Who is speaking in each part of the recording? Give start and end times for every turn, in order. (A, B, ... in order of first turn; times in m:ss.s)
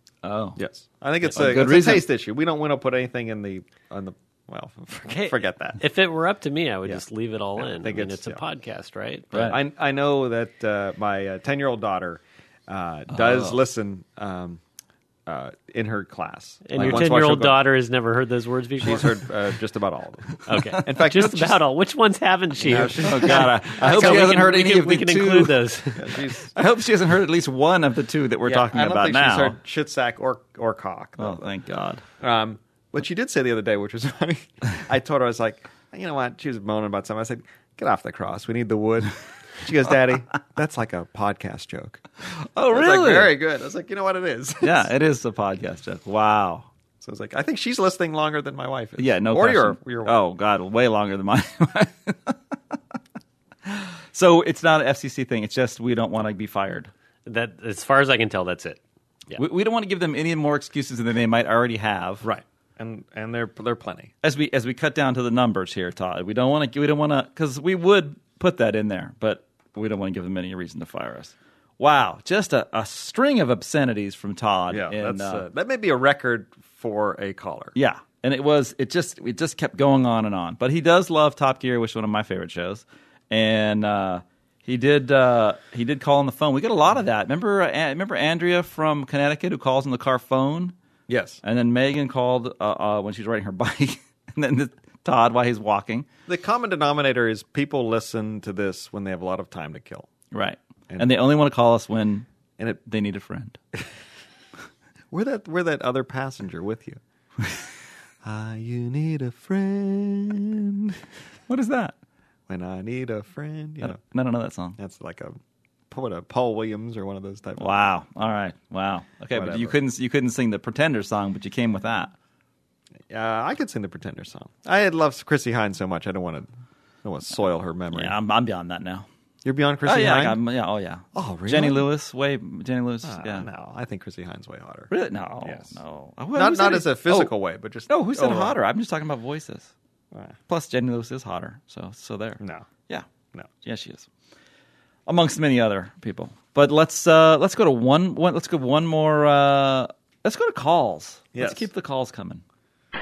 0:00.2-0:00.6 A
0:00.6-0:05.8 B
0:01.2-0:02.1 A
0:05.1-0:09.6 C
0:07.6-0:08.4 B
0:09.3-0:09.6 A
0:09.4-0:14.6 B
0:13.1-0:13.6 A
0:15.3-0:17.6 B
0:16.6-0:19.2 C
0:16.8-0:17.1 A
0:18.8-0:21.6 B
0:20.5-0:26.2 C
0:22.6-0:24.5 B
0:23.0-0:25.5 A
0:26.0-0:26.5 B
0:26.5-0:29.6 A
0:28.4-0:31.5 B
0:31.2-0:32.0 A
0:32.2-0:42.0 B
0:42.6-0:43.4 A
0:42.7-0:44.9 B
0:44.6-0:46.7 A
0:47.0-0:50.2 B
0:49.0-0:52.4 A
0:53.7-0:56.9 A
0:57.3-0:58.8 C
0:59.4-1:02.3 A
1:02.2-1:04.1 B
1:04.2-1:15.4 A
1:14.7-1:17.8 B
1:17.8-1:30.8 A
1:31.1-1:31.4 B
1:31.4-1:36.1 A
1:36.3-1:40.1 B
1:40.3-1:43.6 A
1:45.1-1:47.0 B
1:48.2-1:51.0 B
1:51.5-1:52.0 A
1:52.5-1:54.0 B
1:53.8-1:54.8 A
1:54.8-1:55.4 B
1:55.9-1:57.8 B
1:57.6-2:02.1 A
1:59.3-1:59.8 B
2:03.1-2:06.5 B
2:07.0-2:08.1 B
2:07.9-2:09.1 A
2:09.4-2:10.4 B
2:09.8-2:13.5 A
2:11.1-2:11.9 B
2:13.0-2:14.9 B
2:14.9-2:17.3 A
2:15.4-2:15.7 B
2:16.4-2:18.6 B
2:17.9-2:19.7 A
2:20.5-2:23.1 A
2:22.4-2:22.7 B
2:23.6-2:24.1 A
2:25.1-2:32.4 A
2:31.4-2:31.7 B